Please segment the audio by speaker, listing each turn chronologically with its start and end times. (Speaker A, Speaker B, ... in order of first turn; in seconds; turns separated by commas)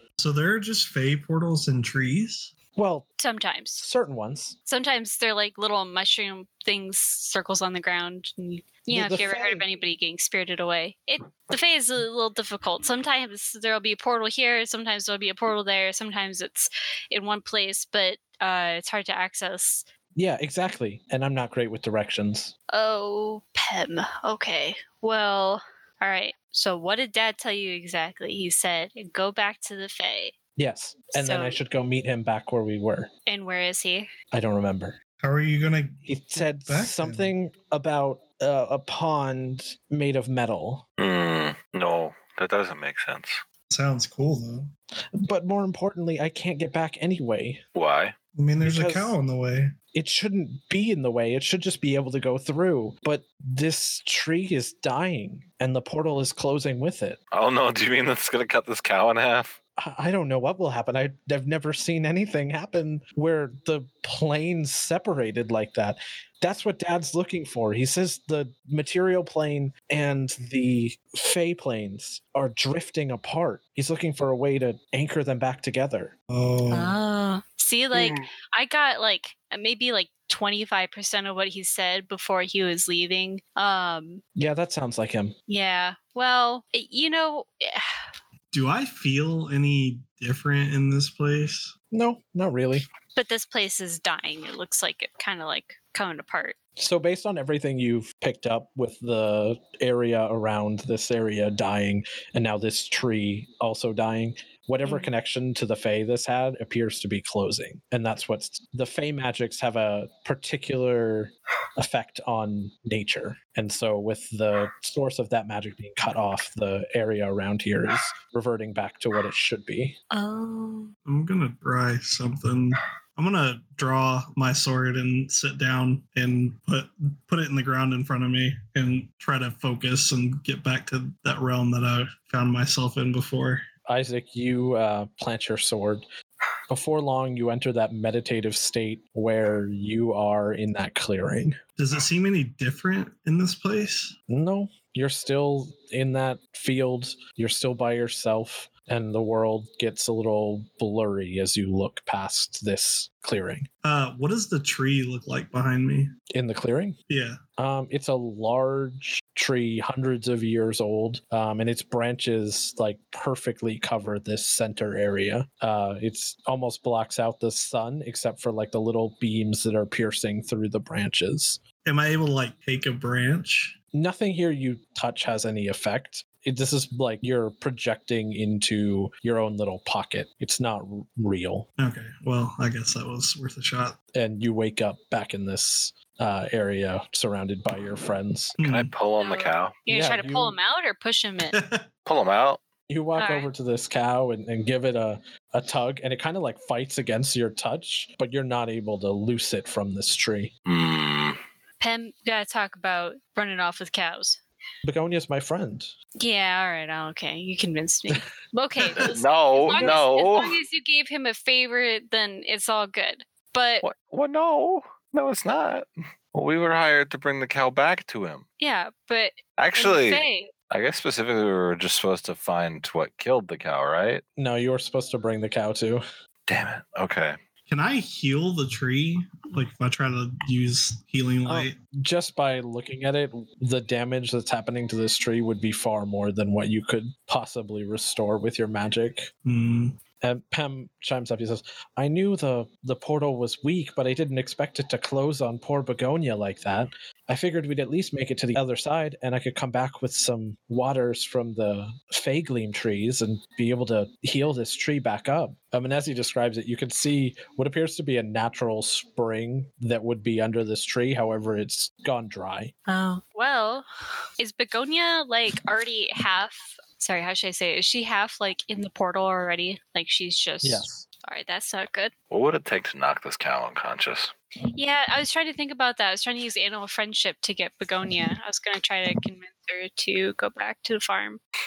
Speaker A: 0.2-2.5, Speaker B: 2.8-3.1, Speaker C: 3.2-3.9, Speaker B: 3.8-4.6, Speaker C: 4.7-19.9, Speaker B: 8.9-9.7, Speaker B: 20.2-22.5, Speaker C: 22.7-30.4, Speaker B: 30.6-33.1, Speaker C: 31.1-31.6, Speaker C: 33.3-34.1, Speaker B: 34.3-35.0, Speaker A: 35.2-37.3, Speaker B: 36.1-40.8, Speaker D: 41.0-43.4, Speaker A: 43.7-44.7, Speaker B: 45.2-47.6, Speaker D: 47.8-48.2, Speaker A: 48.4-49.8, Speaker B: 48.6-49.1, Speaker B: 49.9-57.2, Speaker D: 57.3-59.6, Speaker B: 59.8-76.1, Speaker A: 76.3-77.0, Speaker C: 76.7-84.2, Speaker B: 84.4-85.3, Speaker C: 85.5-88.0, Speaker A: 88.5-91.8, Speaker B: 91.9-92.9, Speaker C: 93.2-96.6, Speaker B: 96.8-120.0, Speaker C: 120.1-120.9, Speaker A: 121.1-133.7, Speaker B: 133.9-136.1, Speaker B: 136.7-141.6, Speaker A: 141.8-144.2, Speaker B: 144.3-153.7, Speaker A: 153.8-156.1, Speaker B: 156.3-157.0, Speaker A: 157.1-157.4, Speaker B: 157.6-171.6, Speaker A: 171.8-173.8, Speaker B: 173.9-181.7, Speaker A: 181.8-184.0, Speaker B: 184.1-188.6, Speaker A: 188.6-188.9, Speaker D: 188.6-189.8, Speaker C: 189.2-191.6, Speaker B: 189.9-190.6, Speaker A: 191.5-191.8, Speaker D: 192.1-192.6, Speaker B: 192.9-200.5, Speaker C: 193.2-193.5, Speaker D: 200.7-201.4, Speaker C: 201.8-204.4, Speaker B: 204.8-205.9, Speaker C: 206.2-213.9, Speaker D: 209.0-210.6, Speaker B: 209.7-210.0, Speaker D: 213.8-218.4, Speaker C: 218.6-220.5, Speaker D: 219.6-224.2, Speaker B: 224.4-226.0, Speaker D: 226.5-227.4, Speaker A: 227.7-231.8, Speaker B: 231.5-239.3, Speaker A: 239.4-240.0, Speaker B: 240.2-262.7, Speaker C: 262.9-263.9, Speaker C: 264.4-272.1, Speaker B: 270.6-271.1, Speaker D: 272.3-274.3, Speaker C: 274.7-281.4